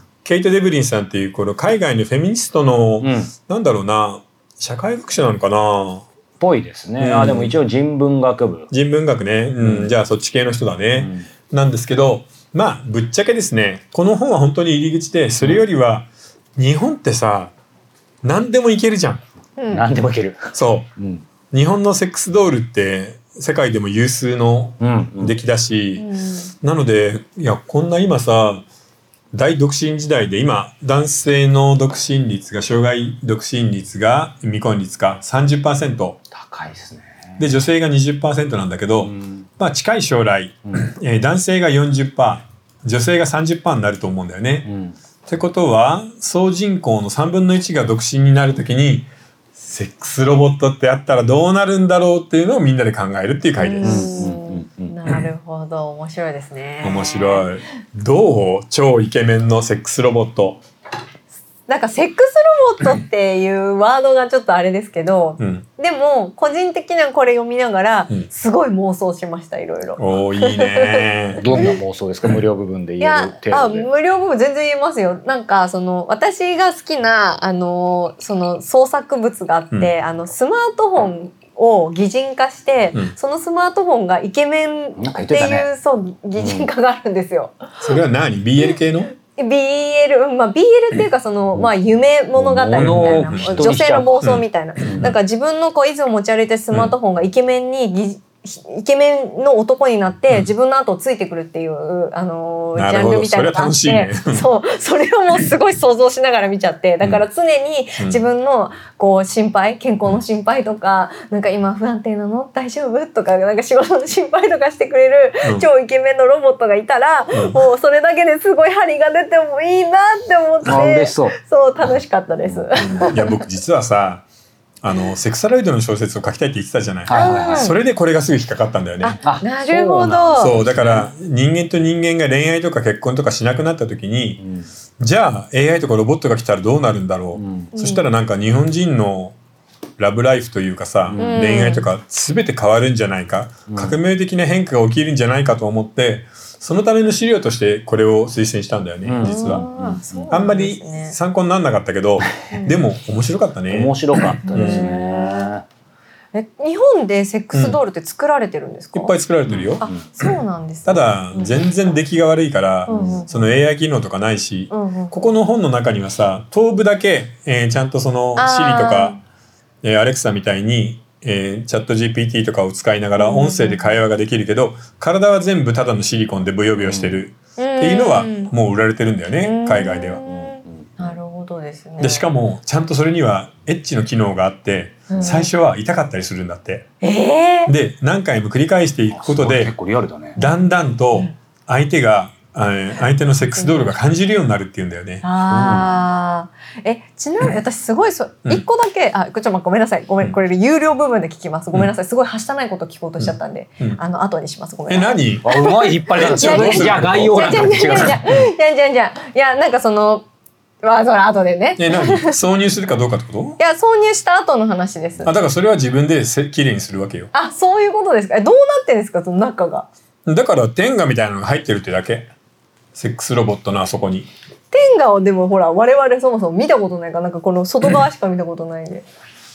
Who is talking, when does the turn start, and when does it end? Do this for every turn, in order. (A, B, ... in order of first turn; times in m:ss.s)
0:00.2-0:06.0 A
0:03.0-0:03.3 B
0:06.4-0:08.7 B
0:07.0-0:07.6 A
0:08.7-0:17.5 A
0:09.6-0:09.9 B
0:11.0-0:11.3 B
0:18.2-0:19.2 A
0:19.6-0:19.8 C
0:19.7-0:21.2 B
0:20.5-0:20.9 A
0:21.5-0:26.1 A
0:24.8-0:25.3 B
0:26.0-0:26.5 C
0:26.6-0:28.6 A
0:29.3-0:36.2 A
0:36.3-0:37.5 B
0:37.4-0:44.7 A
0:39.0-0:39.5 B
0:44.6-0:44.9 B
0:45.2-0:54.3 A
0:53.6-0:57.5 C
0:53.8-0:55.0 B
0:56.8-1:00.6 A
1:01.7-1:11.8 C
1:05.4-1:05.6 A
1:10.0-1:11.7 A
1:11.4-1:13.9 B
1:13.0-1:27.6 C
1:25.0-1:25.7 B
1:26.4-1:26.7 B
1:27.8-1:29.1 A
1:29.3-2:03.4 C
1:32.4-1:34.3 B
1:32.8-1:34.4 A
1:34.8-1:35.1 B
1:42.8-1:44.4 A
1:57.3-1:57.6 A
2:00.6-2:01.4 B
2:02.4-2:03.1 B
2:02.8-2:04.2 A
2:04.8-2:09.2 A
2:07.0-2:07.7 B
2:07.1-2:07.8 C
2:09.0-2:10.7 C
2:09.2-2:11.1 B
2:10.4-2:14.4 A
2:14.4-2:14.7 B
2:15.0-2:19.4 A
2:17.4-2:17.7 B
2:17.7-2:18.1 C
2:20.0-2:29.7 A
2:21.1-2:21.4 B
2:21.2-2:21.8 C
2:23.7-2:24.0 B
2:29.0-2:30.4 B
2:29.2-2:31.2 C
2:30.3-2:34.9 A
2:32.5-2:32.8 C
2:33.7-2:35.6 B
2:34.4-2:35.5 C
2:36.3-2:39.1 C
2:37.5-2:37.8 A
2:38.9-2:39.8 A
2:39.5-2:40.0 B
2:39.8-2:41.6 C
2:40.8-2:49.2 A
2:42.9-2:43.3 C
2:42.9-2:43.2 B
2:44.7-2:45.2 C
2:48.4-2:49.2 C
2:49.8-3:00.2 A
2:53.2-2:54.0 C
2:56.8-2:57.2 B
2:57.6-2:58.5 C
2:59.4-3:02.3 C
3:00.2-3:01.2 B
3:02.0-3:06.9 A
3:05.1-3:05.5 C
3:07.0-3:07.7 C
3:07.7-3:09.7 A
3:09.1-3:10.4 B
3:10.4-3:15.2 A
3:13.6-3:13.9 C
3:15.2-3:30.2 C
3:15.4-3:16.0 B
3:23.2-3:24.0 A
3:24.9-3:28.4 A
3:25.4-3:28.2 B
3:30.8-3:32.4 C
3:31.8-3:33.6 A
3:33.6-3:35.3 C
3:35.2-3:37.3 A
3:37.3-3:39.9 C
3:40.2-3:42.3 A
3:42.9-3:44.3 A
3:44.7-3:49.0 C